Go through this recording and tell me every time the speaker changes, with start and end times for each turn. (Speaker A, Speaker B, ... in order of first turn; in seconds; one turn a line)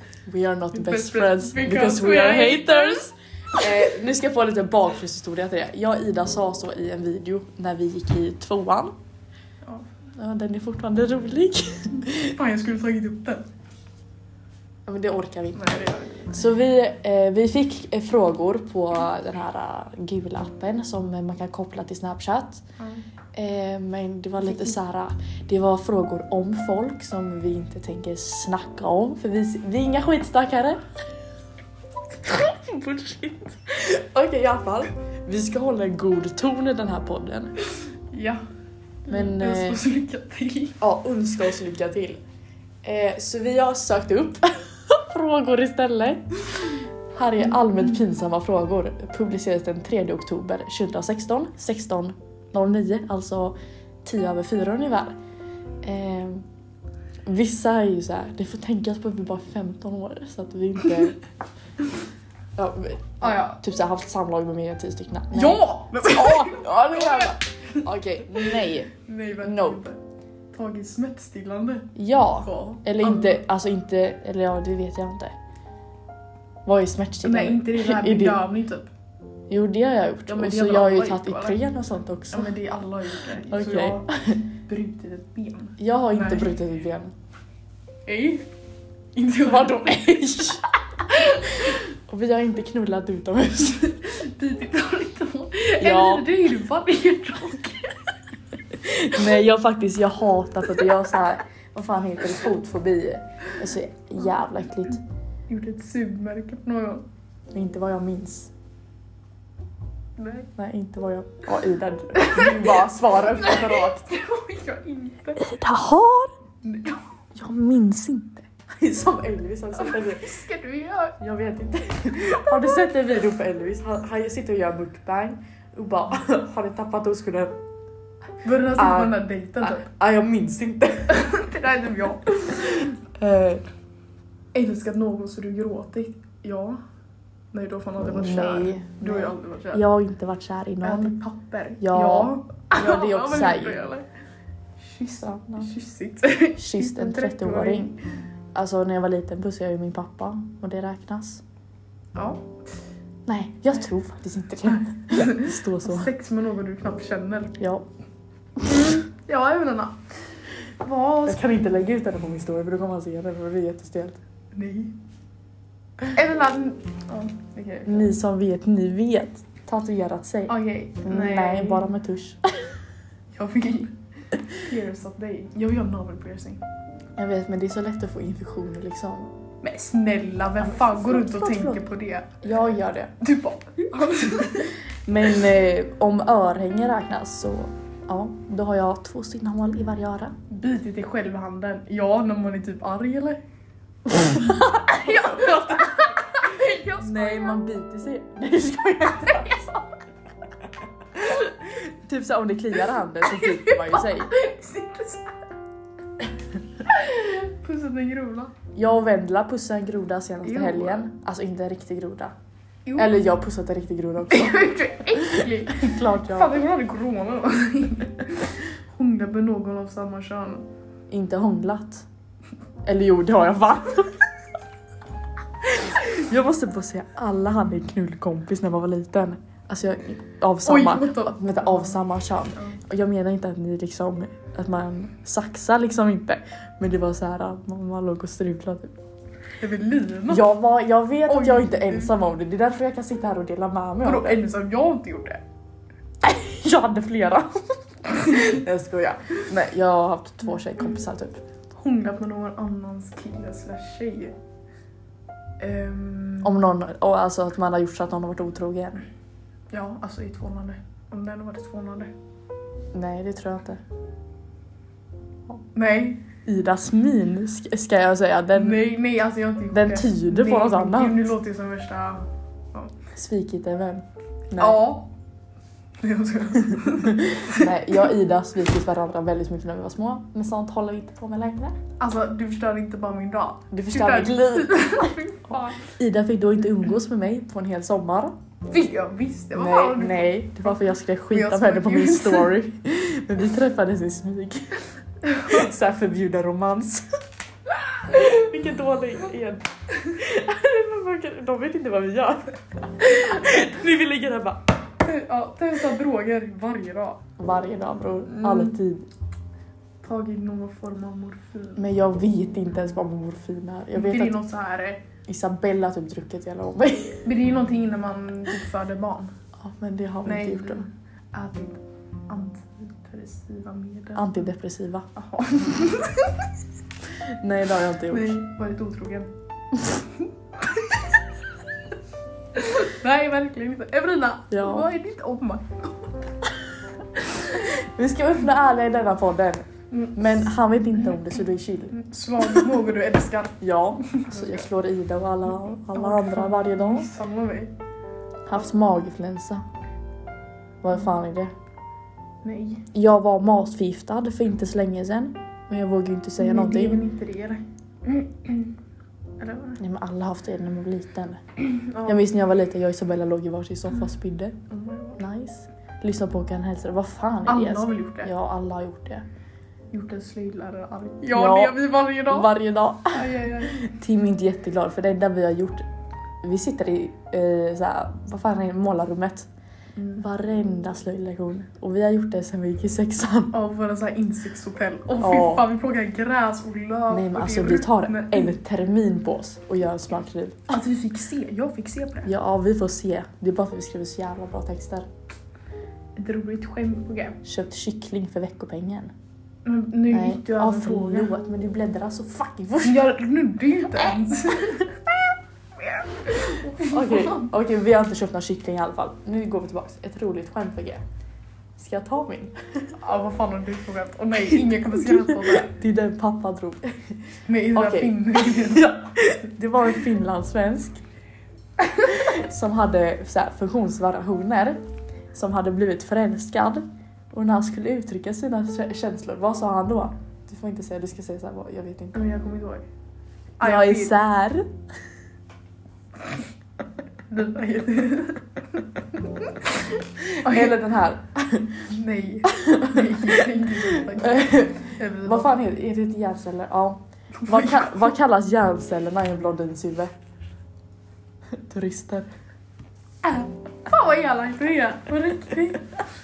Speaker A: 0.3-8.9
Speaker B: 0.7-3.1
Speaker A: 10.2-12.3
Speaker B: 12.2-13.5
Speaker A: 14.9-15.8
Speaker B: 15.6-16.4
Speaker A: 16.3-22.6
Speaker A: 23.4-30.8
Speaker B: 24.4-24.8
Speaker A: 32.3-37.6
Speaker B: 38.1-38.4
Speaker B: 39.1-40.8
Speaker A: 39.1-39.8
Speaker A: 40.8-42.2
Speaker A: 42.8-55.2
Speaker A: 55.8-56.5
Speaker A: 57.3-61.2
Speaker A: 62.6-69.8
Speaker B: 63.2-63.6
Speaker B: 65.3-67.8
Speaker B: 69.0-70.0
Speaker B: 70.5-73.4
Speaker A: 72.0-75.3
Speaker A: 76.7-78.5
Speaker B: 77.2-78.9
Speaker A: 79.5-82.5
Speaker B: 80.3-81.6
Speaker B: 82.3-86.6
Speaker A: 83.4-84.4
Speaker A: 85.8-87.1
Speaker B: 88.1-88.5
Speaker B: 89.2-90.0
Speaker A: 89.4-94.0
Speaker B: 91.1-91.7
Speaker B: 94.0-98.1
Speaker A: 95.8-96.3
Speaker A: 98.7-105.0
Speaker B: 105.5-107.0
Speaker A: 107.5-108.5
Speaker B: 110.2-110.5
Speaker A: 110.6-114.1
Speaker B: 112.2-115.4
Speaker A: 115.4-116.3
Speaker B: 116.6-117.1
Speaker A: 117.3-120.4
Speaker B: 119.8-121.2
Speaker A: 121.2-127.5
Speaker B: 128.4-129.9
Speaker A: 128.6-131.3
Speaker B: 131.1-132.9
Speaker A: 132.6-133.7
Speaker B: 134.5-136.8
Speaker B: 137.5-139.8
Speaker A: 138.0-141.2
Speaker B: 140.8-144.1
Speaker A: 141.8-143.9
Speaker B: 144.8-148.0
Speaker A: 145.0-145.7
Speaker A: 146.6-147.9
Speaker A: 148.6-151.4
Speaker B: 152.2-152.5
Speaker A: 153.3-156.1
Speaker B: 154.9-157.6
Speaker A: 157.6-157.9
Speaker B: 158.7-160.0
Speaker B: 160.7-161.4
Speaker A: 161.3-164.2
Speaker B: 164.6-165.0
Speaker B: 166.1-168.1
Speaker A: 167.8-172.7
Speaker B: 170.5-171.9
Speaker B: 173.3-173.9
Speaker B: 174.5-176.6
Speaker A: 177.2-179.3
Speaker B: 179.6-182.4
Speaker A: 180.6-181.9
Speaker A: 182.4-183.1
Speaker B: 183.2-184.7
Speaker A: 185.1-190.4
Speaker B: 190.5-193.4
Speaker B: 194.1-197.6
Speaker A: 194.2-196.1
Speaker A: 197.0-199.7
Speaker B: 199.3-199.6
Speaker A: 201.2-204.3
Speaker B: 203.2-205.4
Speaker B: 206.8-208.5
Speaker A: 208.8-212.3
Speaker B: 210.4-211.1
Speaker B: 212.9-213.2
Speaker A: 213.0-216.6
Speaker B: 214.3-220.7
Speaker A: 221.1-222.1
Speaker A: 222.8-224.2
Speaker A: 225.6-238.9
Speaker B: 230.7-232.0
Speaker B: 239.6-240.5
Speaker A: 240.3-244.4
Speaker B: 241.3-242.1
Speaker B: 244.0-245.4
Speaker A: 246.2-251.4
Speaker B: 248.2-248.5
Speaker B: 251.8-254.3
Speaker B: 255.6-256.6
Speaker A: 256.4-259.1
Speaker B: 259.7-262.1
Speaker A: 262.9-263.8
Speaker B: 265.8-266.2
Speaker A: 266.5-268.9
Speaker B: 268.5-272.2
Speaker A: 269.7-271.3
Speaker A: 273.1-274.8
Speaker B: 274.6-275.1
Speaker B: 276.0-277.7
Speaker A: 277.2-281.8
Speaker B: 282.0-285.9
Speaker A: 283.7-285.1
Speaker A: 285.8-288.4
Speaker B: 288.7-292.6
Speaker A: 289.5-294.8
Speaker B: 295.3-295.6
Speaker A: 295.4-297.1
Speaker A: 297.9-304.6
Speaker B: 305.0-307.2
Speaker A: 307.4-309.1
Speaker B: 308.3-308.8
Speaker B: 310.0-311.8
Speaker A: 311.8-314.4
Speaker B: 313.9-315.1
Speaker A: 315.3-317.3
Speaker B: 317.2-319.3
Speaker A: 319.6-320.9
Speaker B: 320.2-324.5
Speaker A: 324.1-325.1
Speaker B: 325.1-326.5
Speaker A: 327.4-328.4
Speaker B: 328.1-329.3
Speaker B: 330.6-331.2
Speaker B: 332.6-336.3
Speaker A: 334.5-334.9
Speaker A: 337.4-342.8
Speaker B: 339.9-340.2
Speaker B: 341.9-344.6
Speaker A: 343.6-347.1
Speaker B: 345.9-347.7
Speaker A: 348.5-349.6
Speaker A: 350.8-351.5
Speaker B: 352.4-352.9
Speaker A: 352.9-357.0
Speaker B: 356.4-358.8
Speaker B: 359.4-359.8
Speaker A: 359.8-361.4
Speaker B: 361.6-362.2
Speaker A: 362.0-364.6
Speaker B: 364.7-365.2
Speaker A: 365.2-369.2
Speaker B: 367.5-368.3
Speaker B: 369.9-372.6
Speaker A: 371.2-375.9
Speaker B: 373.1-373.8
Speaker A: 376.4-379.5
Speaker B: 380.0-380.2
Speaker A: 380.2-383.6
Speaker B: 383.5-388.6
Speaker A: 385.2-385.7
Speaker A: 387.1-390.7
Speaker B: 390.7-392.3
Speaker A: 392.2-395.1
Speaker B: 396.2-397.4
Speaker A: 397.4-399.1
Speaker B: 399.6-401.3
Speaker A: 400.1-403.2
Speaker B: 402.8-405.0
Speaker A: 403.9-404.3
Speaker B: 405.8-407.5
Speaker A: 406.7-411.0
Speaker A: 411.8-412.9
Speaker B: 413.0-415.7
Speaker A: 414.6-417.2
Speaker B: 417.5-418.9
Speaker A: 417.7-421.0
Speaker A: 421.9-424.8
Speaker A: 425.3-432.2
Speaker B: 432.1-432.9
Speaker B: 433.6-434.2
Speaker A: 433.6-434.7
Speaker B: 437.3-440.8
Speaker A: 440.2-441.8
Speaker B: 441.9-445.6
Speaker A: 442.6-450.1
Speaker B: 447.4-448.1
Speaker A: 451.6-452.3
Speaker B: 453.2-456.0